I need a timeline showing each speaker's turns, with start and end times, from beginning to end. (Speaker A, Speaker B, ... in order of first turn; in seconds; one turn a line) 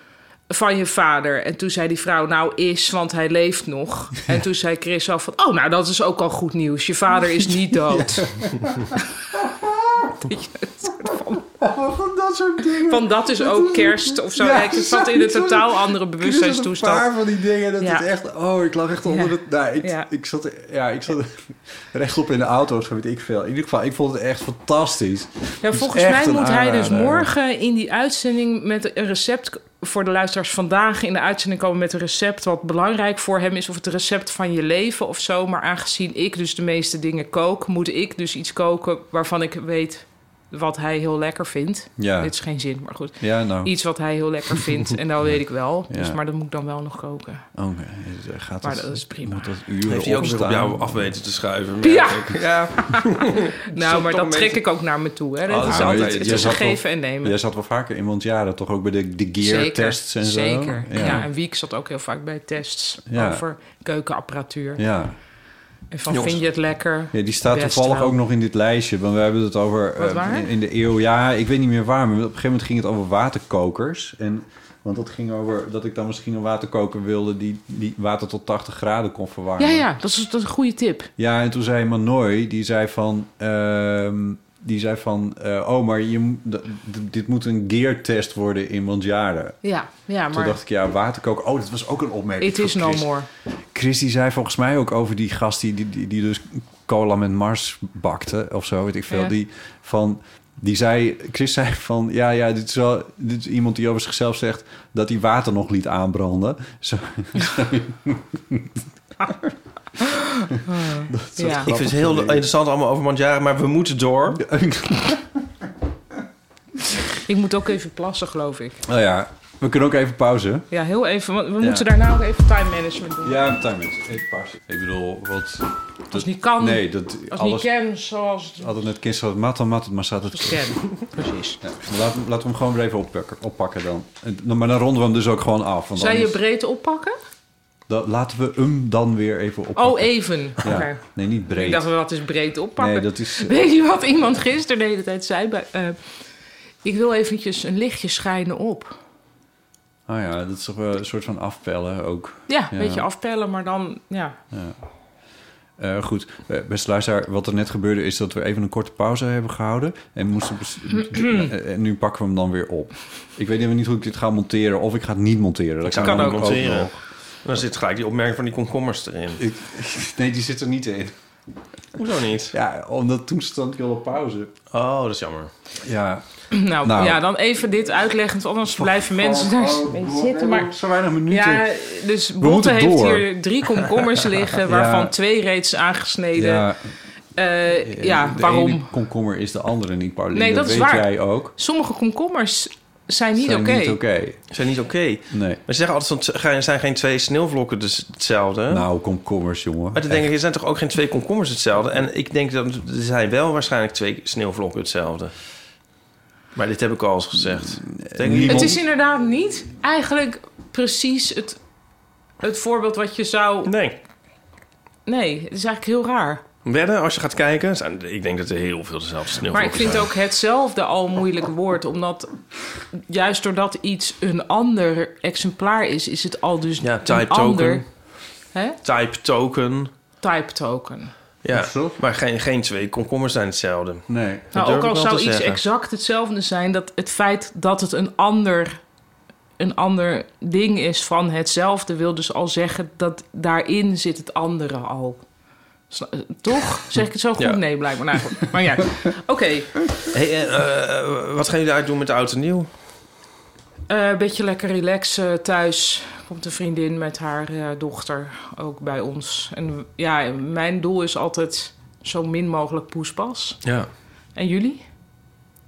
Speaker A: 0.5-8.3
Speaker B: 7.3-10.3
Speaker A: 10.3-11.4
Speaker B: 10.8-27.3
Speaker A: 12.8-17.1
Speaker A: 17.8-18.1
Speaker A: 19.1-20.1
Speaker A: 25.6-47.5
Speaker B: 42.0-42.3
Speaker B: 43.2-43.7
Speaker B: 45.2-46.2
Speaker B: 47.5-51.2
Speaker A: 48.6-49.5
Speaker C: 49.9-54.6
Speaker A: 51.8-57.4
Speaker C: 55.5-56.6
Speaker B: 55.6-61.3
Speaker A: 59.4-64.8
Speaker B: 63.1-63.4
Speaker B: 64.8-65.2
Speaker A: 65.9-68.2
Speaker C: 66.1-66.4
Speaker B: 67.1-79.8
Speaker A: 70.0-70.5
Speaker A: 79.6-81.1
Speaker B: 81.2-89.6
Speaker A: 89.6-90.6
Speaker B: 90.3-93.1
Speaker A: 92.4-93.3
Speaker B: 93.7-109.5
Speaker A: 110.0-111.7
Speaker B: 110.5-112.4
Speaker C: 111.4-114.4
Speaker B: 114.3-115.5
Speaker A: 117.2-118.8
Speaker B: 118.8-120.7
Speaker A: 120.7-123.4
Speaker B: 121.6-121.9
Speaker B: 123.2-127.7
Speaker A: 126.1-128.7
Speaker B: 128.6-130.7
Speaker A: 130.3-131.6
Speaker B: 131.6-136.4
Speaker A: 135.9-137.1
Speaker B: 137.9-141.9
Speaker A: 139.8-145.9
Speaker B: 142.8-143.6
Speaker A: 146.8-149.0
Speaker B: 150.1-153.1
Speaker A: 152.5-154.3
Speaker B: 155.8-166.9
Speaker A: 161.1-161.5
Speaker C: 165.8-169.4
Speaker A: 166.0-166.5
Speaker B: 169.4-171.1
Speaker C: 172.0-172.5
Speaker B: 172.5-174.5
Speaker C: 174.7-175.5
Speaker B: 175.8-176.2
Speaker A: 176.5-180.7
Speaker B: 176.8-177.2
Speaker B: 178.7-181.8
Speaker A: 181.3-186.7
Speaker B: 182.4-183.3
Speaker B: 184.5-185.1
Speaker B: 186.3-186.8
Speaker A: 187.3-188.9
Speaker B: 187.8-191.5
Speaker A: 190.3-194.0
Speaker B: 193.4-194.4
Speaker C: 194.5-198.8
Speaker B: 195.3-195.6
Speaker B: 198.7-200.2
Speaker C: 199.9-205.3
Speaker C: 206.5-208.8
Speaker B: 208.0-208.8
Speaker A: 208.4-211.6
Speaker A: 212.4-213.7
Speaker C: 213.6-213.9
Speaker A: 215.1-216.4
Speaker C: 216.6-220.1
Speaker A: 219.5-222.3
Speaker A: 222.9-227.8
Speaker C: 226.8-228.0
Speaker C: 228.8-229.9
Speaker A: 230.2-231.1
Speaker C: 231.4-235.6
Speaker B: 231.5-232.0
Speaker B: 234.1-234.5
Speaker A: 234.5-238.8
Speaker A: 239.6-245.2
Speaker A: 245.9-249.8
Speaker C: 250.1-252.7
Speaker A: 253.9-263.6
Speaker A: 264.3-264.8